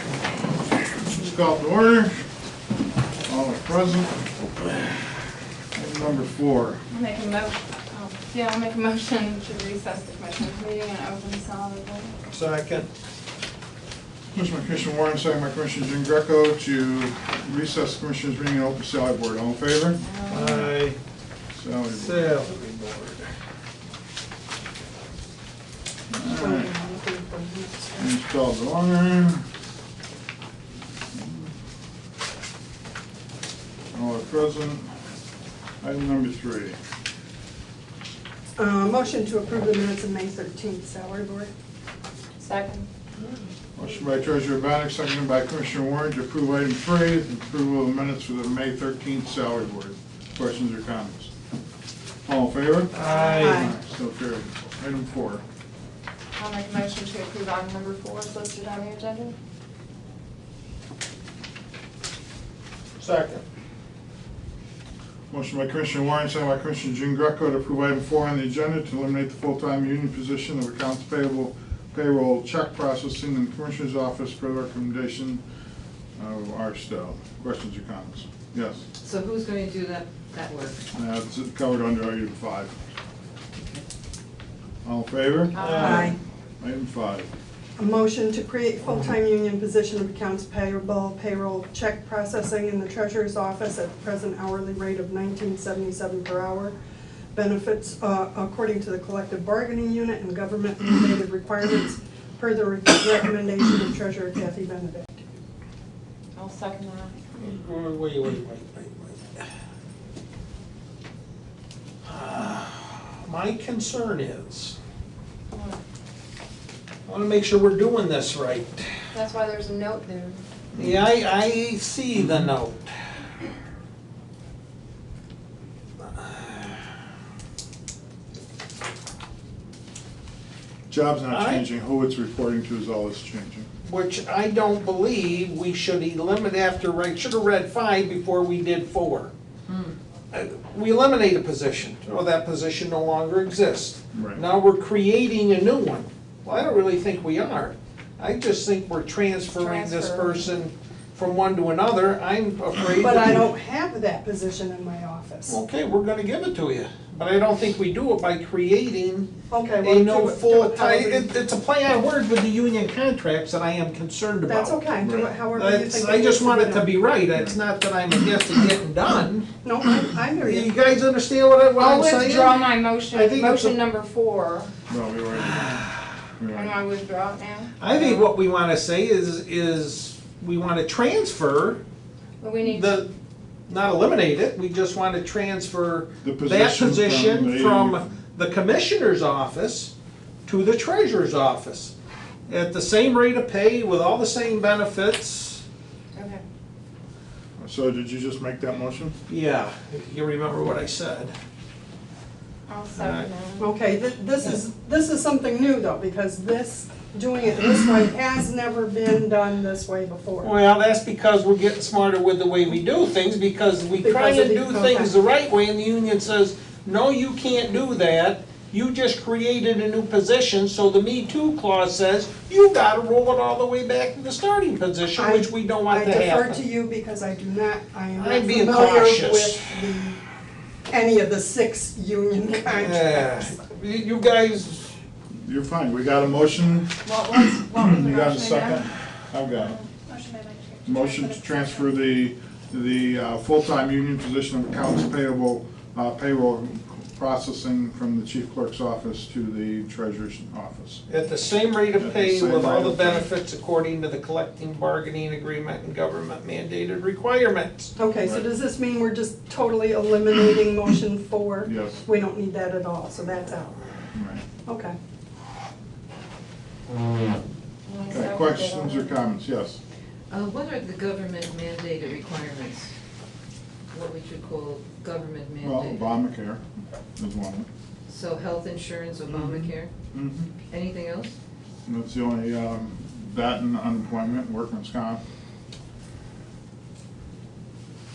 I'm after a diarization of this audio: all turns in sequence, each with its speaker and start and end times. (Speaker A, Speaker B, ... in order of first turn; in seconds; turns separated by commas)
Speaker A: 1.0-2.1, Speaker A: 3.2-4.2, Speaker A: 5.7-6.8, Speaker B: 6.9-12.1, Speaker C: 12.3-12.9, Speaker A: 14.3-20.6, Speaker B: 20.0-20.6, Speaker C: 20.3-21.0, Speaker A: 21.5-22.4, Speaker C: 21.9-23.2, Speaker A: 26.1-26.8, Speaker D: 26.3-28.1, Speaker A: 28.0-29.4, Speaker A: 31.1-31.5, Speaker A: 33.9-34.9, Speaker A: 35.8-36.8, Speaker D: 38.6-41.5, Speaker B: 42.4-42.9, Speaker A: 43.8-51.3, Speaker A: 52.2-55.4, Speaker C: 52.9-53.7, Speaker B: 53.1-53.5, Speaker D: 53.3-53.7, Speaker B: 56.4-59.4, Speaker C: 63.0-63.4, Speaker A: 65.3-75.4, Speaker A: 76.2-78.8, Speaker E: 79.0-80.9, Speaker A: 80.9-82.8, Speaker A: 84.8-86.1, Speaker B: 85.5-86.1, Speaker C: 85.6-86.1, Speaker D: 85.8-86.2, Speaker A: 86.6-87.3, Speaker D: 87.8-96.8, Speaker D: 97.3-105.2, Speaker B: 106.3-107.2, Speaker C: 107.3-109.4, Speaker C: 112.0-114.8, Speaker B: 115.5-115.8, Speaker C: 117.1-118.9, Speaker B: 119.1-120.4, Speaker C: 120.8-122.9, Speaker A: 120.8-121.0, Speaker A: 122.2-122.5, Speaker C: 126.0-126.8, Speaker A: 130.9-133.7, Speaker C: 131.3-131.7, Speaker C: 133.8-139.3, Speaker E: 139.7-140.0, Speaker C: 140.3-153.5, Speaker A: 144.1-144.4, Speaker B: 149.5-150.5, Speaker D: 153.0-155.6, Speaker C: 155.5-169.5, Speaker D: 159.5-161.3, Speaker D: 164.5-166.9, Speaker A: 165.0-165.3, Speaker A: 167.3-167.6, Speaker D: 169.6-170.7, Speaker C: 170.4-173.8, Speaker B: 171.8-174.7, Speaker A: 174.9-176.8, Speaker C: 175.4-176.0, Speaker B: 176.5-178.3, Speaker C: 177.8-181.8, Speaker B: 182.4-183.1, Speaker C: 182.7-183.1, Speaker C: 183.7-189.9, Speaker A: 186.2-188.1, Speaker C: 190.5-191.9, Speaker C: 192.5-195.6, Speaker B: 196.2-196.4, Speaker A: 197.6-199.2, Speaker C: 199.3-201.3, Speaker B: 202.7-203.8, Speaker C: 202.9-203.3, Speaker D: 203.6-210.5, Speaker C: 210.4-226.6, Speaker D: 214.0-215.1, Speaker D: 225.2-230.2, Speaker C: 228.2-229.7, Speaker D: 230.9-233.6, Speaker C: 232.7-234.9, Speaker A: 235.4-236.9, Speaker B: 237.0-238.8, Speaker A: 237.4-239.8, Speaker B: 239.5-241.9, Speaker A: 240.8-251.0, Speaker C: 251.1-257.9, Speaker A: 252.0-253.3, Speaker D: 258.0-263.8, Speaker A: 261.6-262.0, Speaker A: 264.1-264.4, Speaker D: 264.7-265.0, Speaker B: 267.9-269.1, Speaker A: 268.1-269.8, Speaker E: 270.3-272.9, Speaker E: 273.9-276.0, Speaker A: 275.6-276.6, Speaker A: 277.2-277.7, Speaker E: 278.1-279.9, Speaker A: 279.3-280.5, Speaker E: 280.7-281.4, Speaker A: 281.9-285.2